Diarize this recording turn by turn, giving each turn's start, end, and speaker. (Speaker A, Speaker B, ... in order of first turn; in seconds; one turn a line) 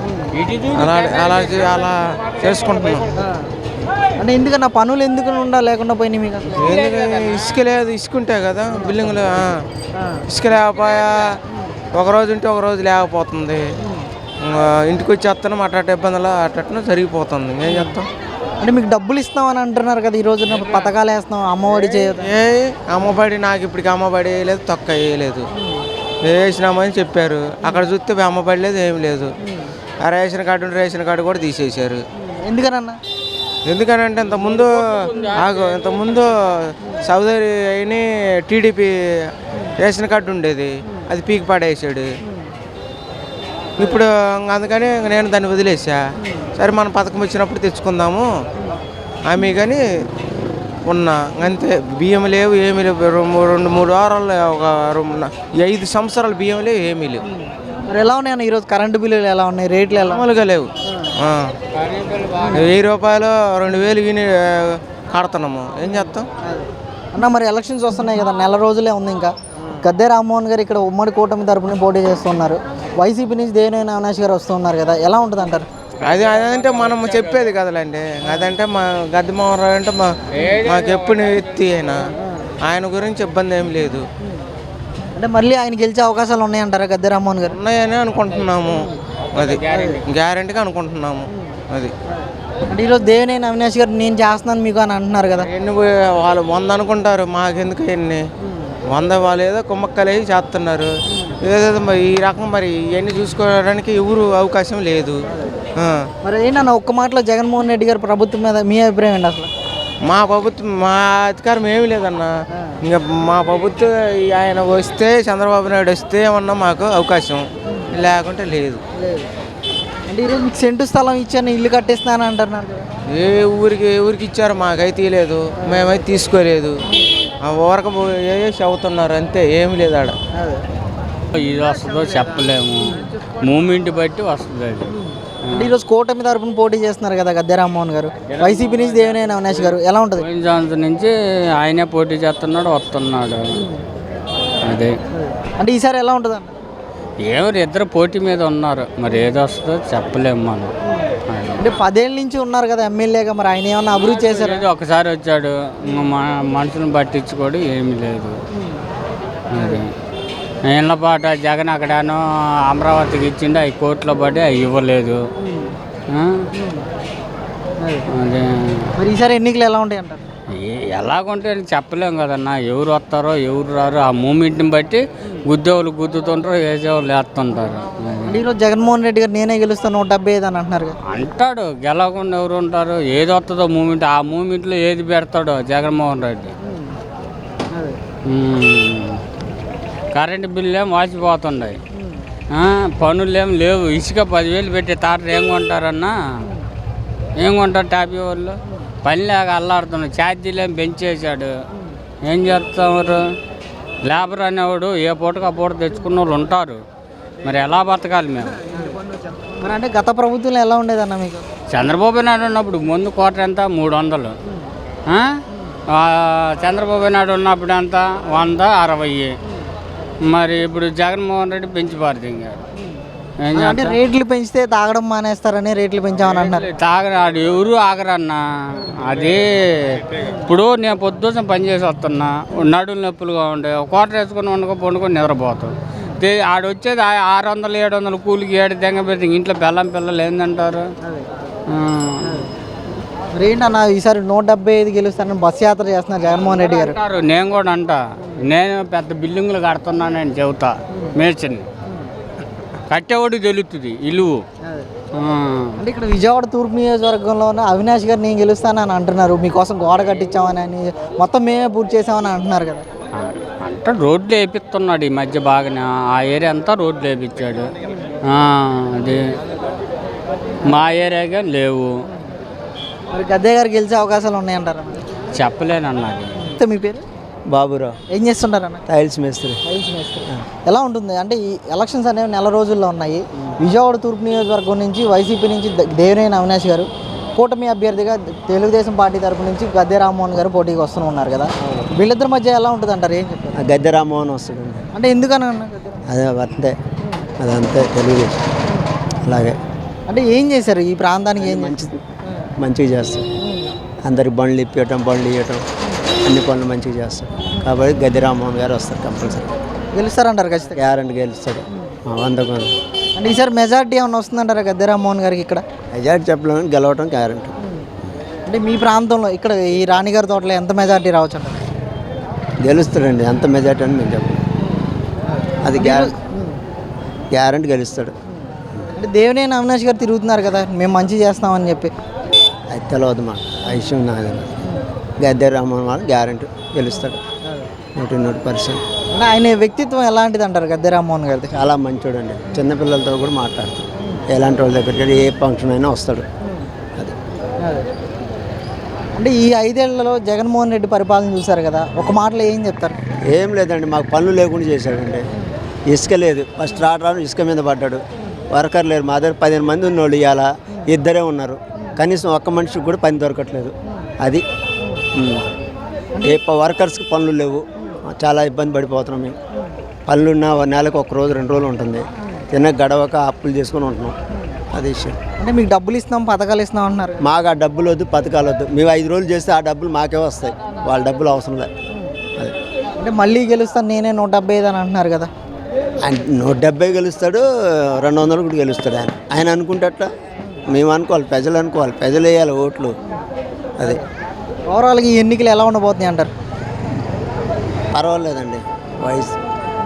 Speaker A: 0.3-1.7
Speaker B: 0.7-3.1
Speaker C: 3.2-3.5
Speaker C: 4.2-6.8
Speaker B: 6.5-9.6
Speaker B: 10.3-11.4
Speaker B: 11.9-13.7
Speaker B: 14.4-18.1
Speaker C: 18.6-22.3
Speaker B: 21.8-25.5
Speaker B: 26.2-29.3
Speaker B: 30.0-32.0
Speaker C: 32.4-33.0
Speaker B: 33.7-38.9
Speaker A: 34.3-36.2
Speaker B: 39.8-42.1
Speaker B: 43.8-46.0
Speaker B: 46.6-48.3
Speaker B: 49.3-49.8
Speaker B: 50.9-57.2
Speaker C: 57.9-60.2
Speaker B: 60.0-61.5
Speaker A: 61.8-62.7
Speaker B: 62.5-66.3
Speaker C: 66.5-75.7
Speaker B: 76.0-80.1
Speaker A: 76.0-77.5
Speaker A: 80.3-81.4
Speaker B: 80.6-82.1
Speaker B: 82.7-84.1
Speaker C: 85.2-87.6
Speaker B: 87.5-91.9
Speaker A: 89.3-90.0
Speaker C: 92.7-95.5
Speaker B: 95.4-98.2
Speaker B: 98.9-100.9
Speaker B: 101.4-105.2
Speaker C: 106.2-109.5
Speaker B: 110.1-118.8
Speaker C: 119.0-119.3
Speaker C: 120.1-122.9
Speaker B: 123.1-126.8
Speaker B: 127.5-130.2
Speaker C: 130.4-130.6
Speaker A: 131.3-135.0
Speaker C: 135.5-140.3
Speaker A: 135.5-135.8
Speaker A: 138.5-139.0
Speaker A: 140.2-143.7
Speaker A: 144.7-144.9
Speaker C: 145.6-146.6
Speaker A: 147.2-150.7
Speaker A: 151.3-151.8
Speaker C: 151.6-154.7
Speaker A: 153.9-158.4
Speaker A: 159.5-159.9
Speaker A: 160.7-165.2
Speaker A: 166.1-166.5
Speaker A: 168.1-168.9
Speaker C: 169.0-170.2
Speaker A: 170.5-178.5
Speaker C: 178.3-181.0
Speaker A: 181.1-186.5
Speaker A: 188.3-189.2
Speaker A: 190.1-191.8
Speaker A: 192.5-196.5
Speaker A: 197.4-201.5
Speaker A: 202.3-203.2
Speaker A: 204.0-206.8
Speaker A: 207.4-208.6
Speaker C: 208.7-209.0
Speaker C: 209.6-211.5
Speaker A: 211.7-214.3
Speaker A: 215.1-215.4
Speaker A: 215.9-219.3
Speaker A: 220.3-222.6
Speaker A: 223.5-224.0
Speaker C: 223.6-226.7
Speaker A: 226.2-240.9
Speaker A: 241.7-242.5
Speaker C: 243.3-247.0
Speaker A: 246.3-251.7
Speaker A: 252.9-254.4
Speaker C: 254.7-254.9
Speaker A: 255.2-255.8
Speaker C: 255.8-262.9
Speaker A: 263.1-267.7
Speaker A: 268.3-269.2
Speaker A: 270.6-271.9
Speaker C: 273.1-275.0
Speaker A: 275.3-276.5
Speaker C: 276.4-277.0
Speaker D: 277.5-278.0
Speaker C: 278.1-278.9
Speaker D: 278.9-279.6
Speaker C: 279.6-293.6
Speaker D: 291.6-291.9
Speaker D: 293.6-294.9
Speaker C: 294.9-296.0
Speaker D: 296.1-296.8
Speaker D: 297.4-298.5
Speaker D: 299.2-299.6
Speaker C: 300.1-301.8
Speaker D: 301.4-302.0
Speaker D: 302.6-303.3
Speaker D: 304.1-305.7
Speaker D: 306.2-309.5
Speaker C: 309.9-310.8
Speaker D: 310.8-312.7
Speaker C: 313.2-315.6
Speaker D: 315.9-317.5
Speaker C: 318.5-321.6
Speaker D: 322.6-324.4
Speaker D: 325.6-326.1
Speaker C: 325.8-326.1
Speaker D: 327.3-328.1
Speaker C: 328.9-331.9
Speaker D: 332.7-334.6
Speaker D: 335.2-337.2
Speaker D: 338.0-338.8
Speaker C: 339.1-341.5
Speaker D: 341.5-346.3
Speaker C: 349.1-353.0
Speaker D: 353.3-355.3
Speaker D: 355.9-364.4
Speaker D: 365.1-365.4
Speaker D: 366.2-369.4
Speaker D: 370.1-374.2
Speaker D: 374.7-375.2
Speaker C: 375.4-377.2
Speaker D: 377.2-381.7
Speaker C: 383.0-385.3
Speaker D: 386.0-390.1
Speaker D: 390.7-393.0
Speaker C: 394.7-396.3
Speaker D: 397.9-399.4